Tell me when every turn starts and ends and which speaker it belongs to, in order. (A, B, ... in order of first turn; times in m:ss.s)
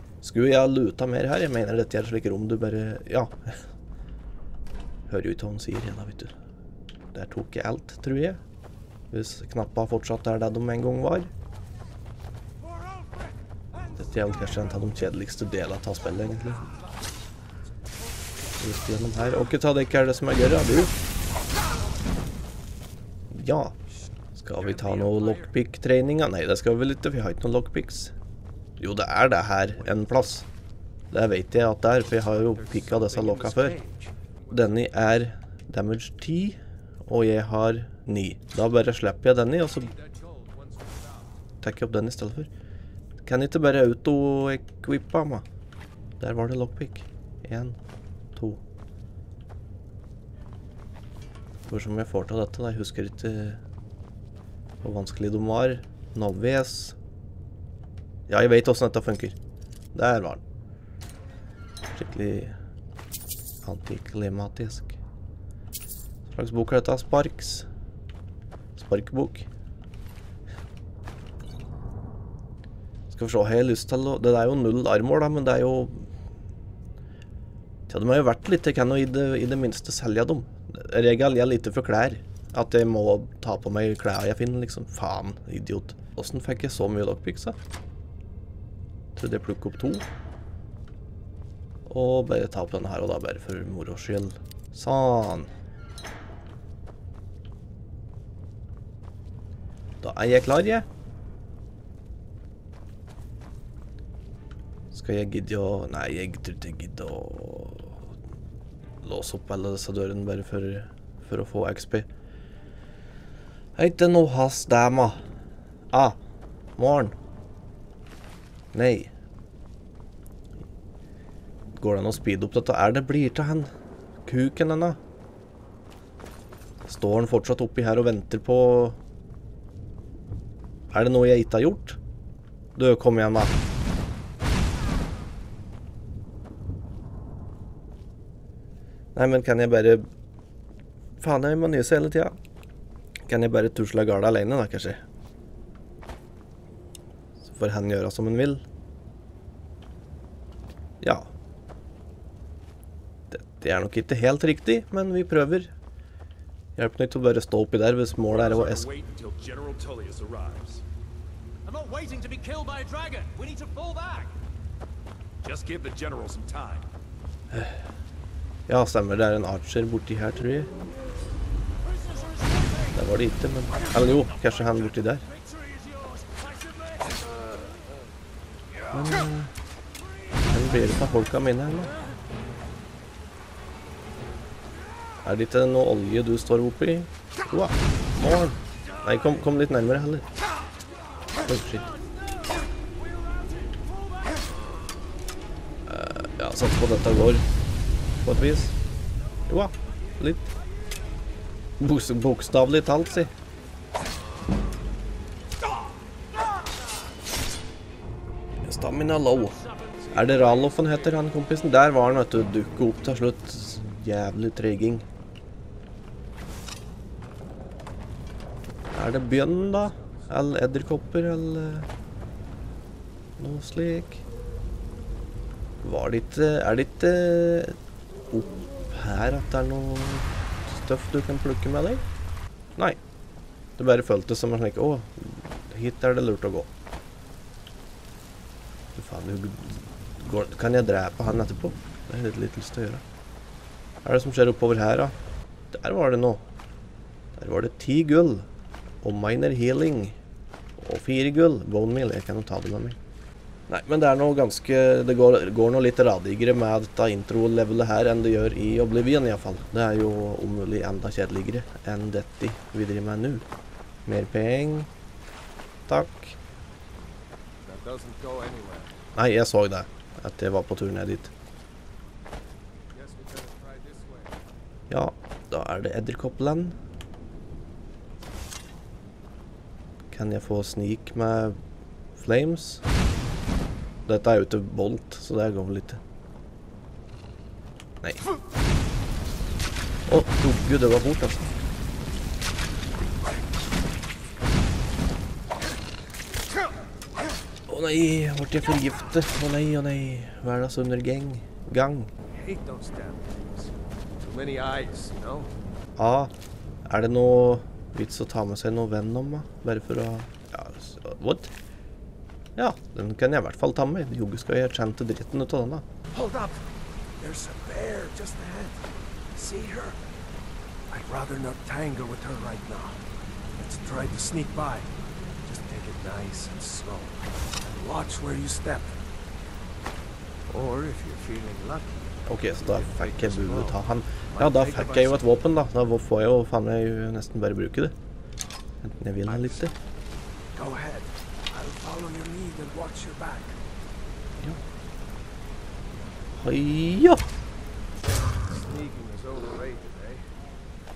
0:00.2-0:03.6 A
0:05.1-0:06.3 A
0:07.1-0:08.4 A
0:09.1-0:11.3 A
0:13.9-0:14.8 B
0:14.0-0:16.7 A
0:16.2-0:16.9 B
0:18.6-0:20.9 A
0:23.3-0:23.7 A
0:24.4-0:28.1 A
0:24.5-0:25.6 B
0:28.8-0:30.4 A
0:29.7-0:30.1 B
0:31.1-0:33.8 A
0:32.1-0:34.9 B
0:34.5-0:39.9 A
0:39.7-0:41.4 B
0:41.6-0:42.5 A
0:43.2-0:45.4 A
0:46.2-0:47.8 A
0:48.3-0:48.6 A
0:51.7-0:53.6 A
0:54.8-0:56.9 A
0:58.3-0:59.4 A
0:59.9-1:00.4 A
1:01.9-1:02.6 A
1:03.6-1:05.0 A
1:06.3-1:07.6 A
1:08.8-1:09.4 A
1:13.1-1:16.1 A
1:17.9-1:27.6 A
1:29.2-1:30.0 A
1:31.9-1:35.5 A
1:40.0-1:40.8 A
1:44.9-1:48.1 A
1:49.0-1:52.1 A
1:53.8-1:55.2 A
1:55.9-1:56.2 A
1:56.8-1:57.1 A
1:58.7-1:59.1 A
2:01.7-2:03.7 A
2:04.2-2:05.0 A
2:06.9-2:09.0 A
2:10.9-2:12.0 A
2:12.8-2:13.5 A
2:19.2-2:20.0 A
2:21.2-2:22.3 A
2:23.3-2:25.0 A
2:27.4-2:28.6 A
2:31.0-2:31.3 A
2:33.3-2:35.7 A
2:36.8-2:38.9 A
2:38.2-2:40.8 C
2:41.6-2:44.3 C
2:45.4-2:46.9 C
2:47.5-2:47.8 A
2:48.7-2:50.7 A
2:52.9-2:55.2 A
2:55.8-2:56.4 C
2:58.9-2:59.5 A
3:00.4-3:01.9 A
3:05.2-3:10.2 A
3:11.4-3:11.9 A
3:15.9-3:17.4 A
3:18.2-3:18.8 A
3:19.5-3:20.5 A
3:21.8-3:23.3 A
3:28.6-3:29.6 A
3:29.3-3:31.3 B
3:30.1-3:35.0 A
3:38.9-3:41.9 A
3:39.0-3:40.4 B
3:43.4-3:44.2 A
3:45.8-3:47.8 A
3:48.3-3:52.0 A
3:53.8-3:56.7 A
3:59.0-4:03.0 A
4:04.0-4:05.1 A
4:05.7-4:06.4 A
4:07.4-4:08.4 A
4:09.0-4:10.2 A
4:10.8-4:13.0 A
4:13.7-4:23.4 A
4:24.0-4:24.9 A
4:25.9-4:26.4 A
4:27.6-4:28.9 B
4:29.2-4:31.3 A
4:32.9-4:34.3 B
4:34.9-4:36.8 A
4:40.1-4:41.6 A
4:42.2-4:42.8 A
4:44.0-4:46.0 A
4:50.1-4:51.6 A
4:57.7-5:02.1 A
5:02.3-5:05.5 B
5:06.0-5:06.3 A
5:06.9-5:11.5 A
5:12.6-5:15.8 A
5:16.1-5:16.6 B
5:17.2-5:20.0 B
5:20.9-5:23.0 B
5:23.6-5:24.9 B
5:25.4-5:29.0 B
5:30.5-5:35.4 B
5:32.3-5:37.9 A
5:38.8-5:39.7 A
5:39.2-5:39.6 B
5:40.5-5:43.6 B
5:46.4-5:47.2 A
5:48.4-5:50.2 B